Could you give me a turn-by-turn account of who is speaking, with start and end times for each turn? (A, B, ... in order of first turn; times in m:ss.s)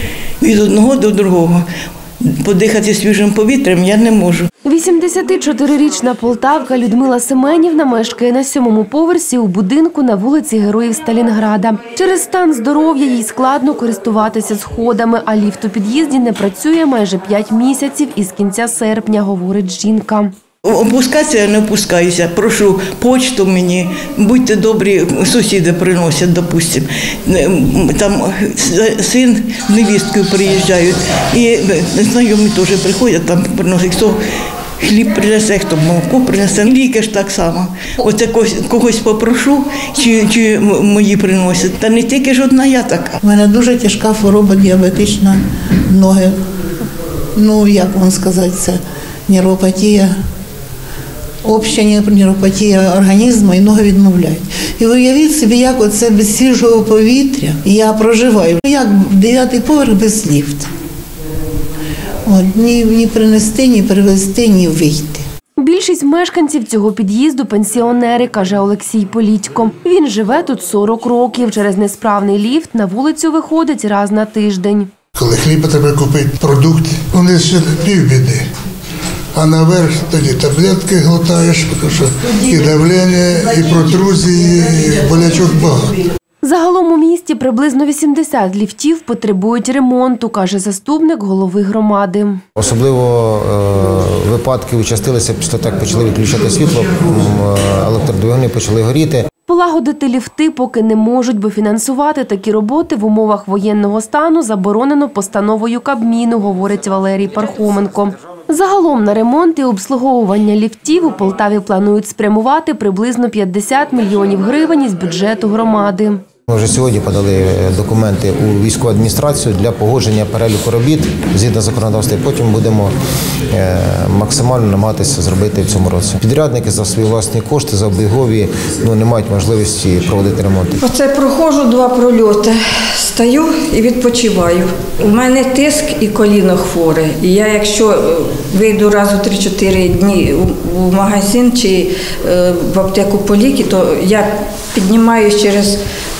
0:00.4-0:01.6 A
0:02.2-0:04.5 A
0:04.6-0:20.3 B
0:20.6-0:34.2 A
0:34.8-0:43.2 A
0:43.2-0:46.4 C
0:47.3-0:50.1 C
0:51.4-1:00.7 C
1:02.2-1:05.2 C
1:05.6-1:14.9 B
1:15.1-1:18.4 D
1:19.3-1:25.9 D
1:26.4-1:32.4 B
1:32.6-1:39.3 E
1:39.4-1:56.2 B
1:56.5-2:02.9 E
2:03.5-2:10.8 E
2:10.8-2:25.8 F